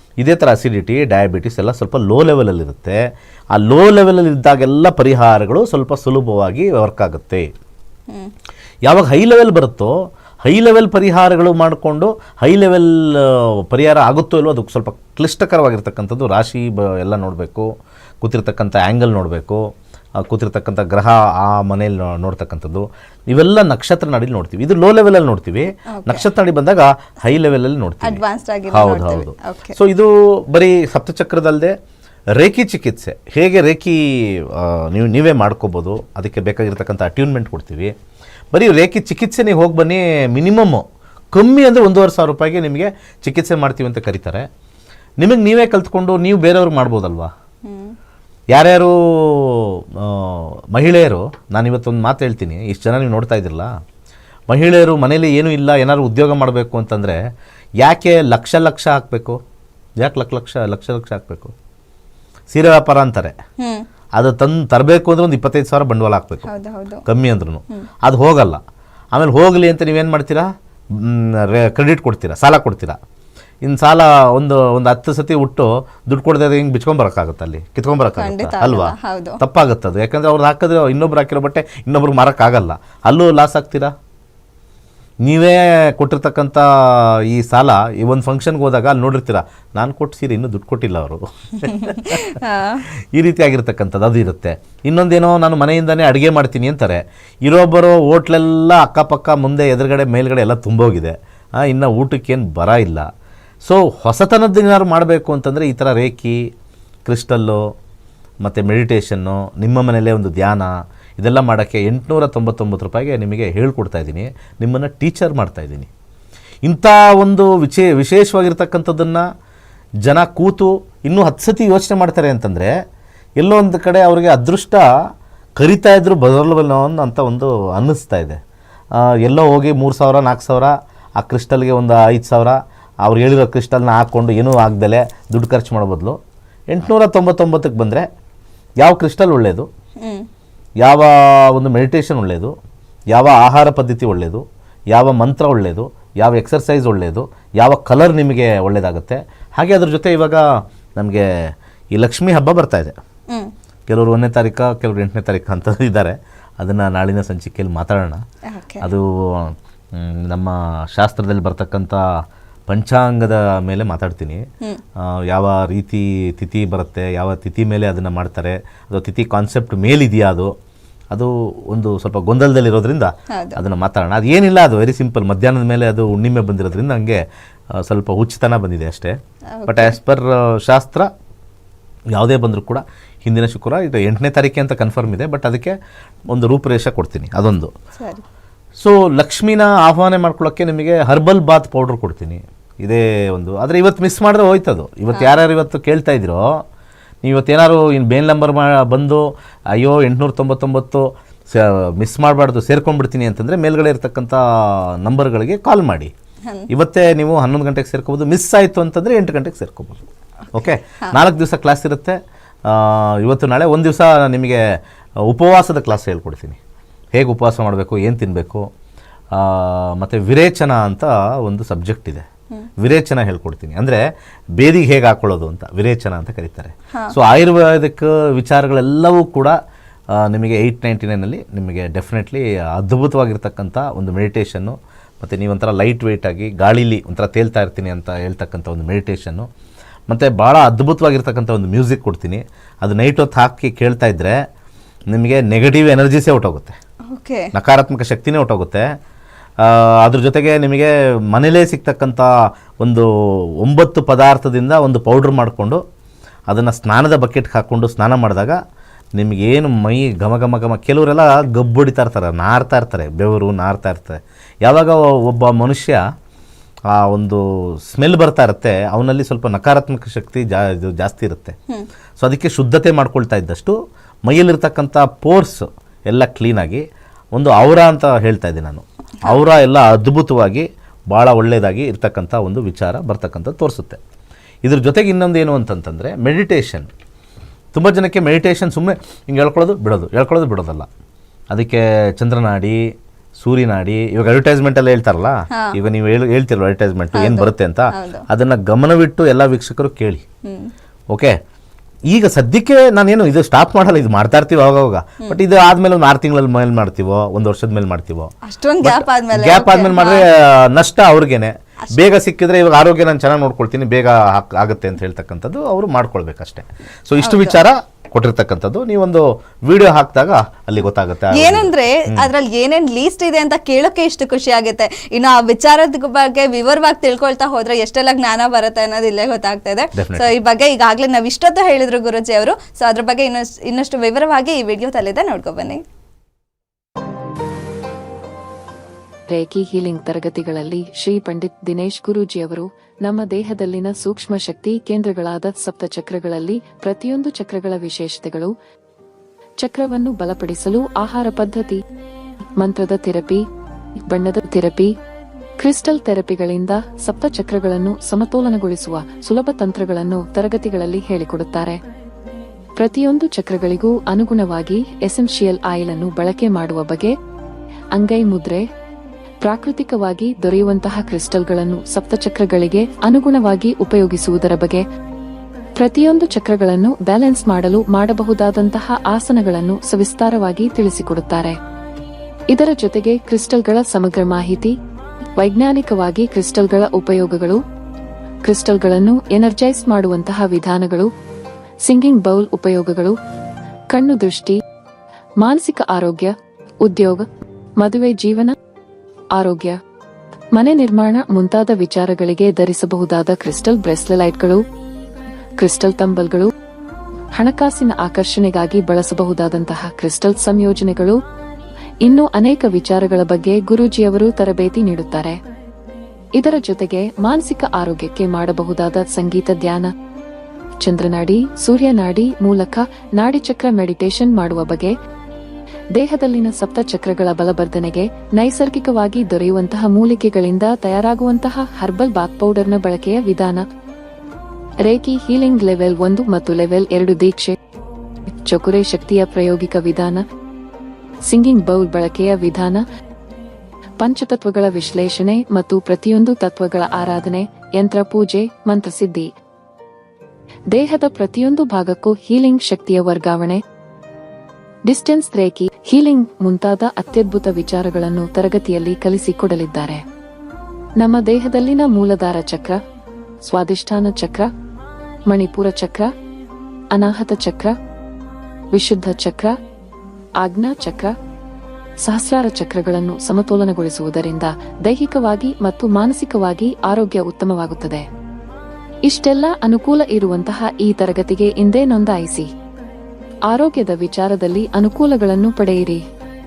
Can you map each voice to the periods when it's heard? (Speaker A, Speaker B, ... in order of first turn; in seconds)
Speaker A: 0.2-3.0, 3.5-7.5, 8.8-17.7, 18.2-31.8, 32.3-37.9, 38.5-44.5, 45.2-47.3, 48.5-53.7, 54.5-57.2, 57.8-59.4, 60.0-61.5, 62.5-63.4, 64.1-66.5, 67.0-68.6, 69.1-73.0, 73.6-83.9, 85.2-92.4, 93.1-103.1, 103.6-106.5, 107.0-107.6, 108.4-115.9, 116.7-119.2, 120.0-122.7, 123.4-124.8, 125.6-128.4, 128.9-136.2, 136.7-138.1, 138.8-139.7, 140.8-142.5, 143.1-150.4, 151.0-152.9, 153.9-158.2, 158.8-162.0, 162.7-164.4, 165.0-170.5, 171.1-177.2, 177.7-181.1, 182.1-185.8, 186.3-187.7, 188.8-196.6, 197.2-206.1, 206.7-210.0, 210.5-214.6, 215.2-216.6, 217.1-218.7, 219.3-222.2, 222.8-229.6, 230.1-239.5, 240.1-244.4, 245.1-246.8, 247.5-248.9, 249.6-255.8, 256.5-258.6, 259.1-266.0, 266.9-271.6, 272.2-284.0, 284.6-286.9, 287.7-290.9, 291.5-300.2, 301.1-301.4, 302.1-322.3, 329.9-330.3
Speaker B: 25.9-26.3, 28.0-29.8, 47.6-48.0, 63.6-63.9, 66.5-67.0, 78.2-79.4, 91.7-92.8, 140.0-140.3, 158.5-158.9, 173.3-173.6, 179.6-179.9, 187.9-188.2, 195.1-195.3, 210.6-211.2, 247.1-247.5, 295.5-295.8, 297.1-298.2, 300.4-300.7, 308.4-310.2, 317.2-317.6, 321.3-335.8
Speaker C: 339.3-348.5, 349.6-351.8, 352.6-353.4, 354.1-354.9, 355.6-361.8, 362.8-367.1, 367.9-368.6, 369.4-374.8, 375.8-381.6, 382.5-384.8, 385.4-387.6, 388.4-391.1, 391.9-393.1, 393.9-394.6, 395.4-397.3, 397.8-398.6, 399.4-399.8, 400.6-404.6, 405.6-406.5, 407.4-411.2, 412.0-415.4, 416.4-419.9, 420.8-424.9, 425.9-433.6, 434.9-437.6, 438.4-440.2, 441.3-442.8, 444.0-449.3, 450.7-453.6, 454.9-460.0, 461.0-462.8, 463.5-464.5, 465.3-466.1, 466.9-467.7, 468.7-469.5, 470.4-471.1, 472.1-478.1, 479.1-482.5, 483.5-486.0